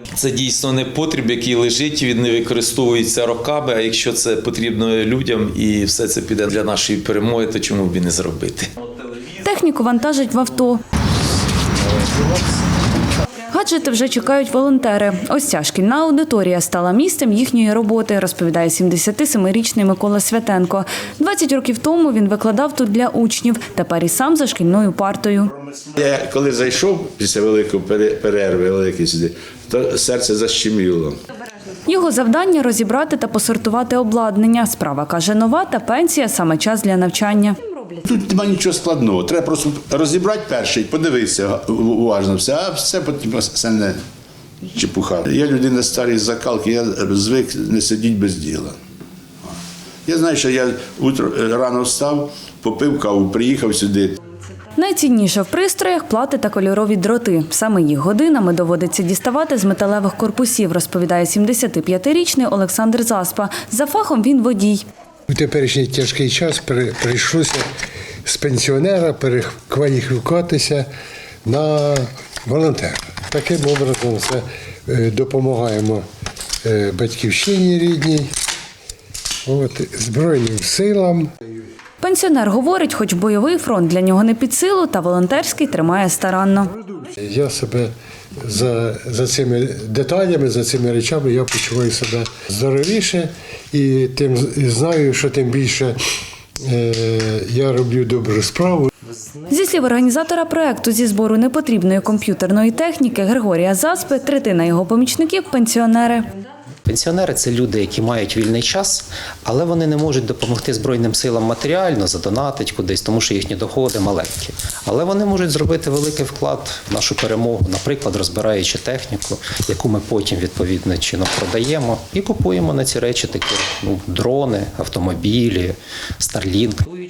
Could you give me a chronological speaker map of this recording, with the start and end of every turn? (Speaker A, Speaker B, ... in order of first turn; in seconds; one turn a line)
Speaker A: 0.1-8.7
Speaker B: 9.4-10.8
Speaker B: 13.5-25.5
Speaker C: 25.9-31.2
Speaker B: 31.9-37.6
Speaker C: 38.0-44.0
Speaker C: 44.6-48.8
Speaker C: 50.0-54.2
Speaker B: 54.8-64.8
Speaker D: 65.3-67.6
Speaker D: 68.2-70.9
Speaker D: 71.4-76.0
Speaker D: 76.6-78.3
Speaker D: 79.5-81.3
Speaker B: 82.0-86.7
Speaker D: 86.9-96.0
Speaker D: 96.6-98.9
Speaker B: 99.5-106.2
Speaker E: 106.9-126.8